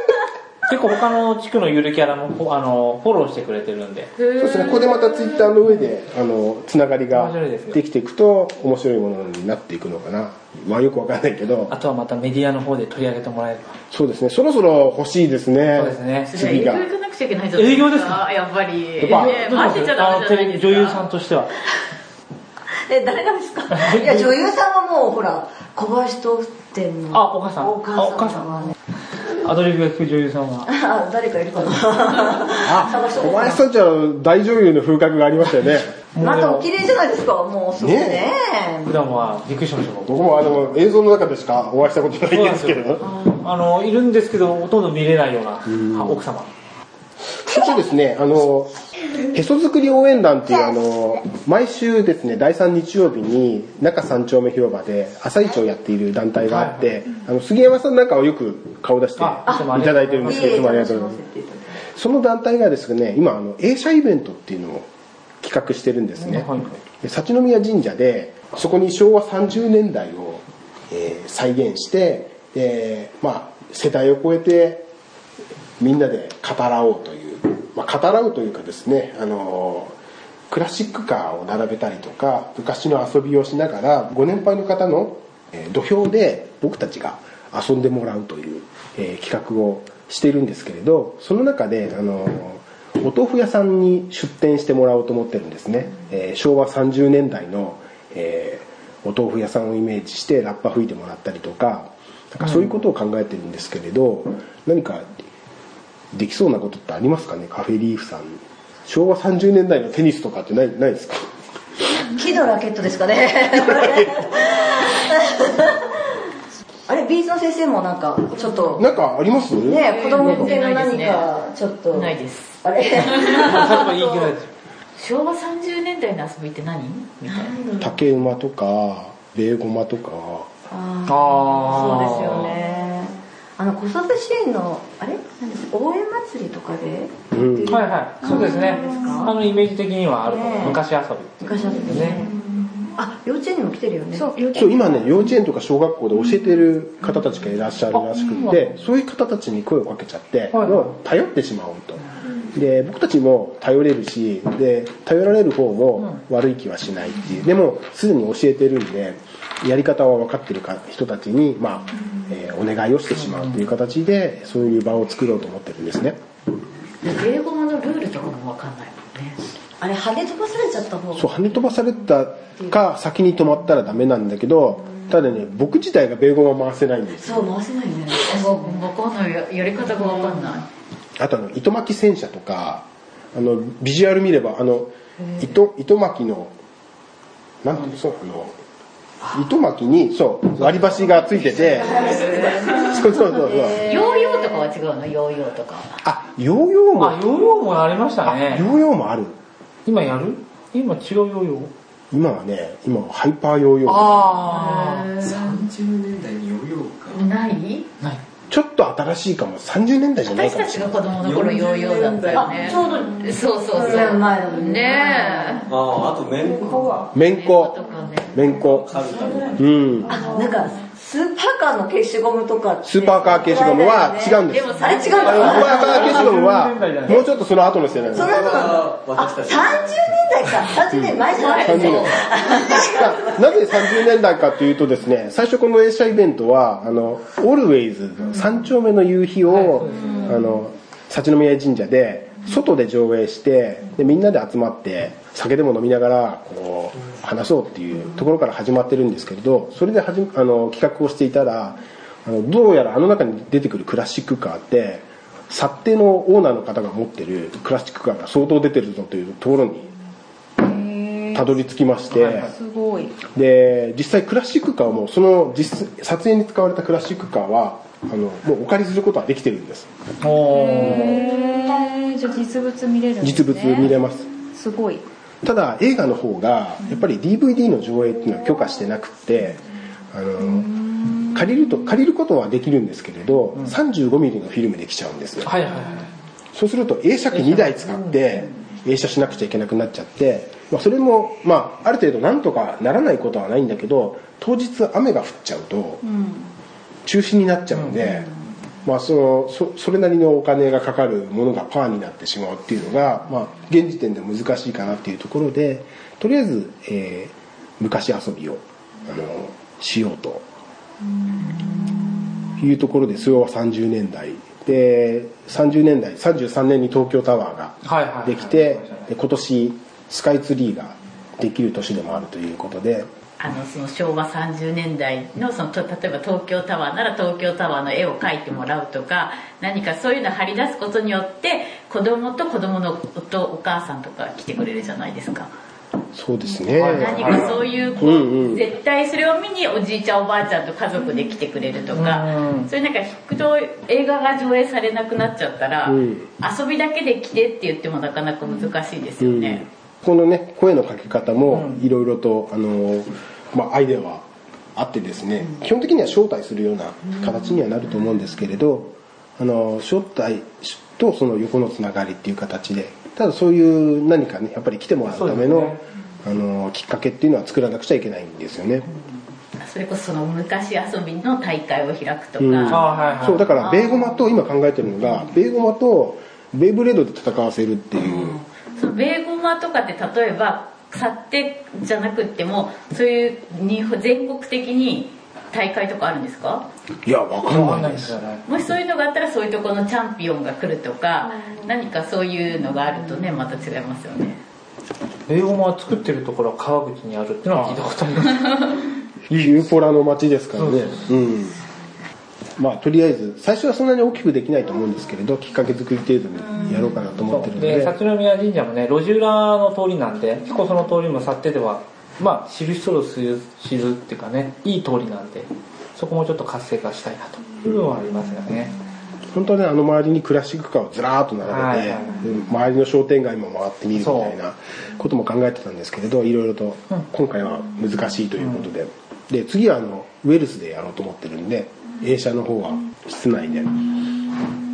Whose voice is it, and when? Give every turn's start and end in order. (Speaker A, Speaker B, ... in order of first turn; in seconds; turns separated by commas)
Speaker A: 0.7-4.1, Speaker B: 4.2-4.8, Speaker C: 4.4-11.7, Speaker A: 7.1-7.8, Speaker A: 11.7-13.8, Speaker C: 13.9-16.9, Speaker A: 15.8-16.7, Speaker B: 16.3-21.0, Speaker A: 17.6-18.2, Speaker A: 19.0-21.5, Speaker C: 19.0-19.4, Speaker D: 22.9-28.8, Speaker A: 23.7-24.3, Speaker A: 27.1-28.5, Speaker A: 29.4-30.7, Speaker D: 30.6-33.6, Speaker C: 32.6-36.0, Speaker A: 36.1-36.7, Speaker D: 36.2-39.0, Speaker C: 37.8-38.3, Speaker A: 38.9-40.1, Speaker C: 40.1-43.0, Speaker A: 42.2-46.5, Speaker C: 45.7-46.2, Speaker C: 47.2-61.2, Speaker A: 56.5-56.9, Speaker A: 59.2-60.5, Speaker D: 59.5-61.9, Speaker C: 61.9-64.9, Speaker C: 65.4-66.5, Speaker A: 66.2-66.8, Speaker C: 67.0-74.9, Speaker C: 75.8-80.0, Speaker C: 80.5-105.3, Speaker C: 106.1-111.3, Speaker D: 111.9-116.0, Speaker D: 116.9-118.9, Speaker C: 118.8-120.6, Speaker D: 119.6-124.3, Speaker B: 119.7-121.3, Speaker B: 121.9-123.5, Speaker A: 123.4-124.5, Speaker B: 125.0-127.5, Speaker D: 127.3-128.0, Speaker C: 127.8-130.5, Speaker D: 130.7-139.4, Speaker A: 131.1-132.5, Speaker C: 137.3-137.8, Speaker A: 137.7-142.2, Speaker D: 140.2-140.8, Speaker D: 141.4-144.3, Speaker E: 144.3-144.8, Speaker C: 144.5-166.2, Speaker A: 147.9-148.8, Speaker A: 150.5-150.9, Speaker A: 163.1-163.6, Speaker B: 167.0-169.4, Speaker D: 169.8-171.3, Speaker C: 171.2-177.5, Speaker D: 177.2-178.8, Speaker B: 178.3-180.7, Speaker C: 181.2-186.5, Speaker C: 187.6-188.6, Speaker C: 189.3-193.9, Speaker B: 191.9-192.6, Speaker D: 192.1-192.4, Speaker B: 193.8-195.9, Speaker C: 196.0-197.2, Speaker A: 197.0-198.7, Speaker C: 198.2-199.4, Speaker A: 199.9-201.7, Speaker C: 202.1-204.4, Speaker A: 203.9-205.2, Speaker F: 205.2-207.3, Speaker B: 207.1-207.9, Speaker C: 208.5-211.1, Speaker B: 210.3-215.7, Speaker F: 211.2-212.8, Speaker D: 212.3-215.7, Speaker F: 215.7-216.8, Speaker D: 216.4-217.0, Speaker C: 217.1-217.8, Speaker B: 217.2-218.5, Speaker C: 218.3-219.0, Speaker F: 218.5-219.6, Speaker D: 219.1-225.9, Speaker C: 219.6-220.2, Speaker C: 222.8-228.6, Speaker B: 224.5-226.3, Speaker A: 225.3-227.3, Speaker D: 228.1-233.6, Speaker F: 228.2-230.1, Speaker C: 231.1-259.9, Speaker B: 231.4-232.0, Speaker A: 239.5-240.2, Speaker E: 260.6-261.4, Speaker C: 261.3-262.5, Speaker A: 262.1-262.5, Speaker E: 262.5-263.1, Speaker C: 263.3-269.9, Speaker A: 270.2-271.3, Speaker E: 270.5-273.9, Speaker C: 273.2-274.3, Speaker E: 274.5-275.0, Speaker C: 275.4-285.6, Speaker A: 285.4-286.1, Speaker C: 286.5-296.1, Speaker A: 287.3-288.2, Speaker C: 297.1-298.3, Speaker C: 298.9-310.4, Speaker C: 312.6-323.1, Speaker A: 317.8-319.1, Speaker B: 323.4-335.5, Speaker C: 336.1-338.6, Speaker A: 336.8-337.4, Speaker B: 336.9-349.7, Speaker A: 341.9-342.7, Speaker C: 345.9-346.3, Speaker C: 349.2-354.2, Speaker A: 351.5-351.8, Speaker C: 354.8-368.9, Speaker A: 365.1-365.8, Speaker B: 369.6-374.2, Speaker C: 372.4-378.4, Speaker A: 372.7-373.5, Speaker B: 378.0-386.7, Speaker C: 387.1-388.2, Speaker A: 387.4-388.4, Speaker B: 388.5-394.4, Speaker A: 395.3-398.7, Speaker A: 399.3-399.7, Speaker C: 399.3-401.6, Speaker A: 400.6-401.0, Speaker C: 402.6-408.0, Speaker A: 407.3-418.8, Speaker C: 419.3-433.8, Speaker A: 421.4-422.3, Speaker A: 424.0-424.4, Speaker A: 428.4-428.7